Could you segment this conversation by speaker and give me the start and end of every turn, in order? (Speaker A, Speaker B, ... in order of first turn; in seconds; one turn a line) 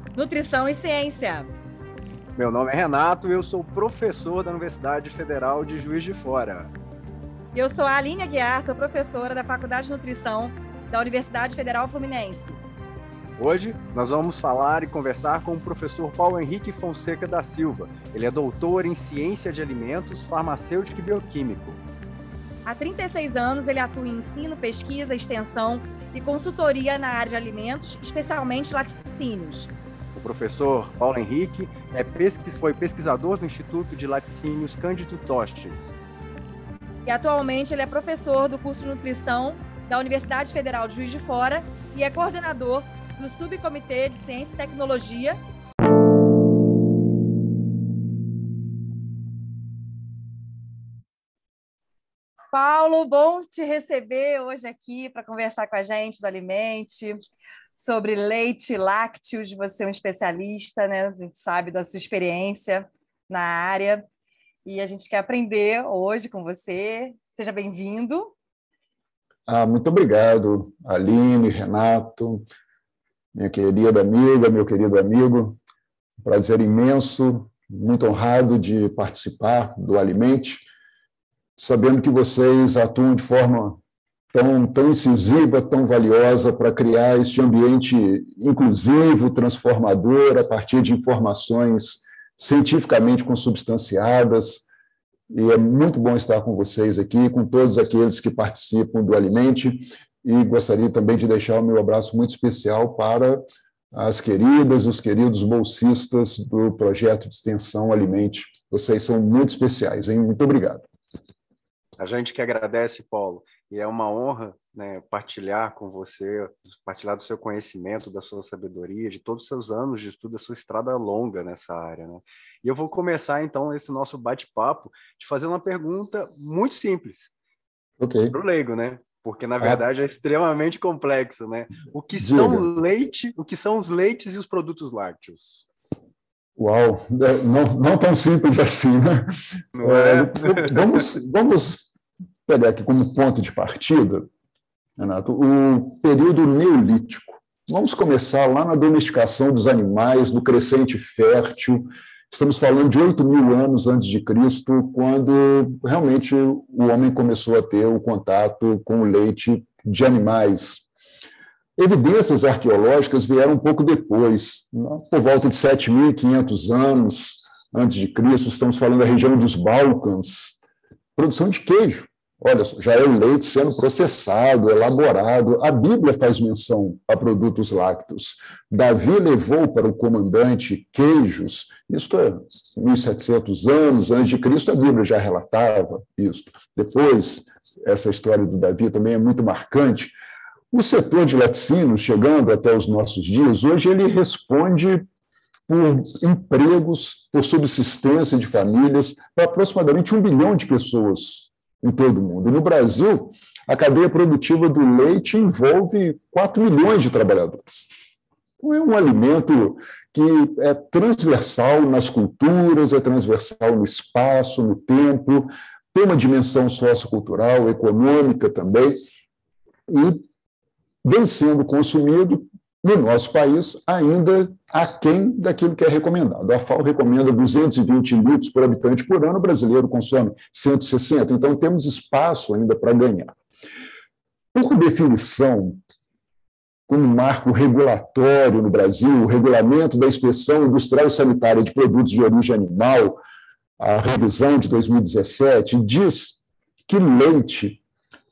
Speaker A: 0.1-1.5
Speaker B: 2.4-6.7
Speaker A: 7.5-12.6
Speaker B: 13.4-21.8
Speaker A: 22.6-29.7
Speaker B: 30.1-36.0
Speaker A: 37.0-45.4
Speaker A: 52.5-57.2
Speaker A: 57.8-64.1
Speaker A: 64.6-68.3
Speaker C: 69.5-72.5
Speaker C: 73.3-75.6
Speaker C: 76.2-80.7
Speaker C: 81.6-83.8
Speaker C: 84.3-94.6
Speaker C: 95.3-110.9
Speaker B: 112.0-127.3
Speaker C: 128.0-128.3
Speaker B: 128.3-135.7
Speaker C: 132.2-132.7
Speaker C: 136.6-139.3
Speaker B: 139.7-141.0
Speaker C: 139.8-141.8
Speaker C: 142.5-144.3
Speaker C: 145.0-160.8
Speaker C: 161.8-170.6
Speaker C: 171.2-190.1
Speaker C: 190.7-195.1
Speaker C: 195.7-207.9
Speaker C: 208.6-219.0
Speaker C: 219.9-220.2
Speaker C: 221.0-233.4
Speaker C: 234.5-235.8
Speaker C: 236.9-243.2
Speaker C: 243.8-247.8